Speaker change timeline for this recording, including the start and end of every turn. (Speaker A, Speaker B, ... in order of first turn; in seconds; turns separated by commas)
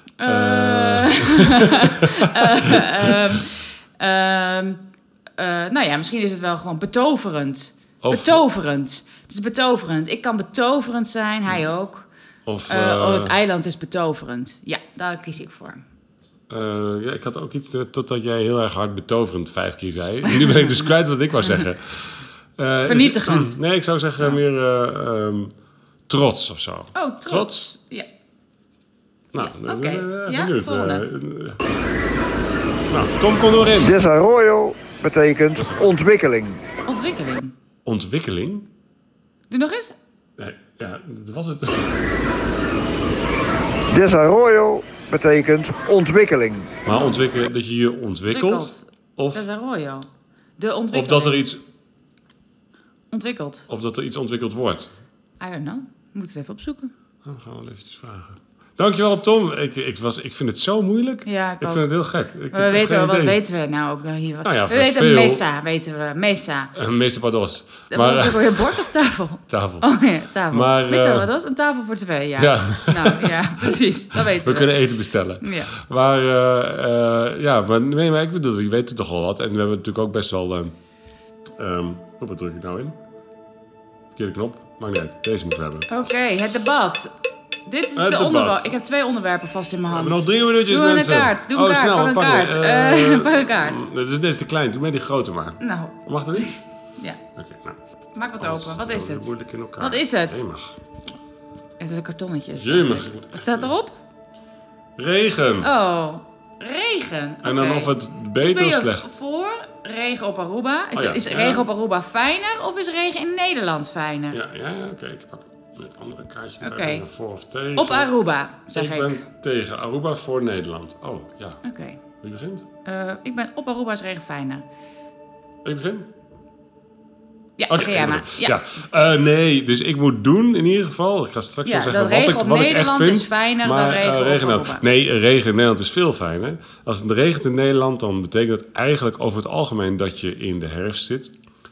Speaker A: 0.2-4.8, Speaker B: 0.2-3.2, Speaker A: 5.4-12.1, Speaker B: 8.0-8.4, Speaker B: 12.5-13.3, Speaker A: 12.7-15.8, Speaker B: 16.5-25.5, Speaker A: 20.3-20.7, Speaker A: 22.9-23.6, Speaker B: 26.1-27.7, Speaker A: 26.9-28.1, Speaker B: 29.3-31.6, Speaker A: 29.4-31.1, Speaker B: 32.9-34.0, Speaker C: 33.7-36.6, Speaker B: 35.6-35.8, Speaker A: 36.9-37.5, Speaker B: 37.9-38.7, Speaker A: 39.5-39.9, Speaker B: 40.4-42.0, Speaker C: 43.9-46.8, Speaker B: 46.9-49.5, Speaker A: 46.9-47.2, Speaker A: 48.3-50.1, Speaker A: 50.6-51.4, Speaker B: 50.9-51.6, Speaker A: 53.1-53.6, Speaker B: 53.7-54.9, Speaker A: 55.4-56.9, Speaker B: 57.2-63.4, Speaker A: 61.2-61.9, Speaker A: 62.5-66.7, Speaker B: 64.4-65.4, Speaker B: 66.8-68.9, Speaker A: 67.9-74.8, Speaker B: 69.5-69.9, Speaker B: 70.5-71.3, Speaker B: 72.4-80.7, Speaker A: 75.4-75.7, Speaker B: 81.6-83.0, Speaker B: 84.2-85.9, Speaker A: 85.9-87.1, Speaker A: 87.7-93.9, Speaker B: 88.0-88.7, Speaker B: 89.9-96.6, Speaker A: 95.6-97.2, Speaker B: 97.3-97.8, Speaker A: 98.2-100.4, Speaker B: 98.4-100.8, Speaker A: 101.8-103.9, Speaker B: 102.5-103.7, Speaker B: 105.0-105.7, Speaker A: 105.6-114.4, Speaker B: 107.4-109.2, Speaker B: 111.0-111.7, Speaker B: 114.3-118.1, Speaker A: 116.6-117.1, Speaker A: 117.8-119.2, Speaker B: 118.7-121.6, Speaker A: 121.6-122.0, Speaker B: 122.2-122.7, Speaker A: 122.8-124.6, Speaker B: 125.6-126.1, Speaker A: 127.6-128.6, Speaker B: 127.7-141.3, Speaker A: 131.7-134.8